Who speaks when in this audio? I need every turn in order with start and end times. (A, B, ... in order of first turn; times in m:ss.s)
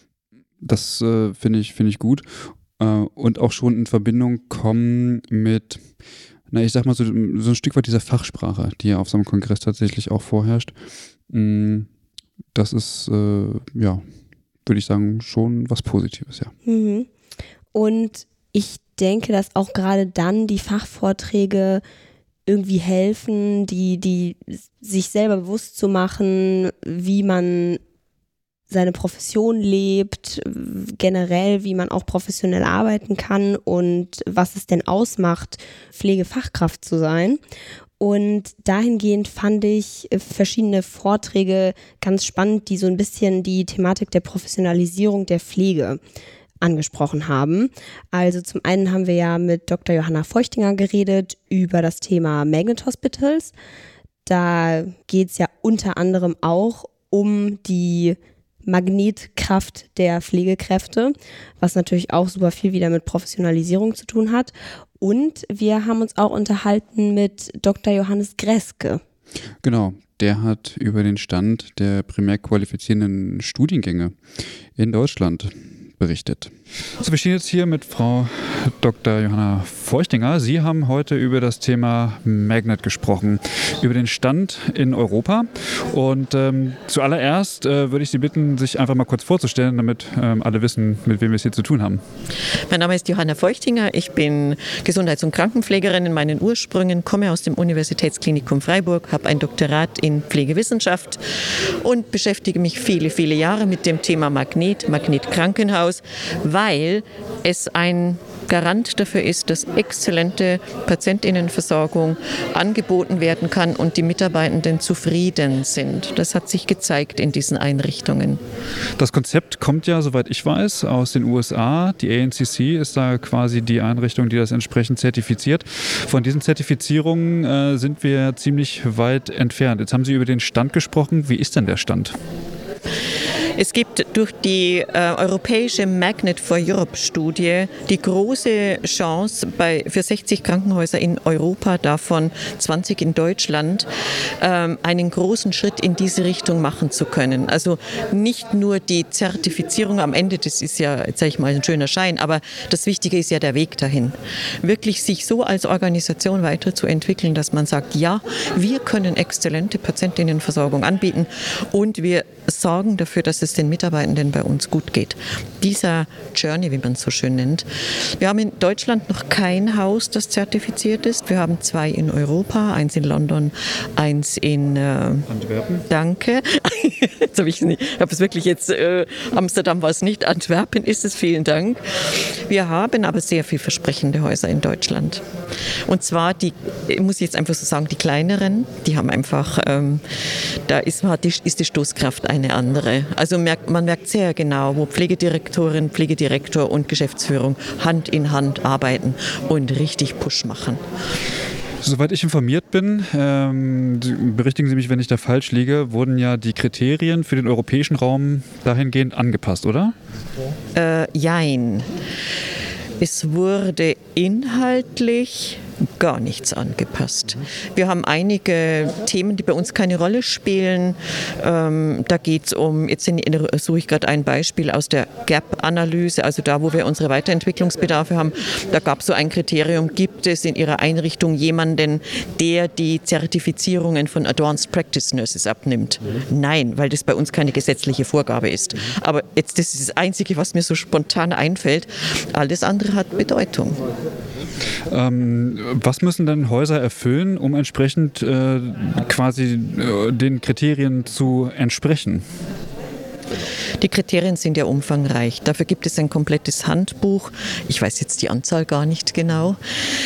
0:00.6-0:05.9 A
0:06.5-0:10.8 A
0:11.3-0:11.9 A
0:12.5-0:14.0 A
0:14.6-0:16.5 A
0:16.6-0:17.1 B
0:17.7-0:21.8 B
0:22.5-0:27.8 B
0:28.7-0:37.4 B
0:38.0-0:46.0 B
0:46.6-0:53.5 B
0:54.3-1:09.0 B
1:09.6-1:14.2 A
1:14.8-1:32.0 A
1:32.7-1:58.4 C
1:59.0-2:12.2 A
2:13.6-2:23.9 C
2:24.4-2:55.3 C
2:55.3-2:55.8 A
2:55.9-3:05.3 C
3:05.8-3:20.8 C
3:21.8-3:29.9 A
3:30.7-3:32.0 C
3:33.0-4:03.8 C
4:04.9-4:12.2 A
4:13.8-4:19.6 C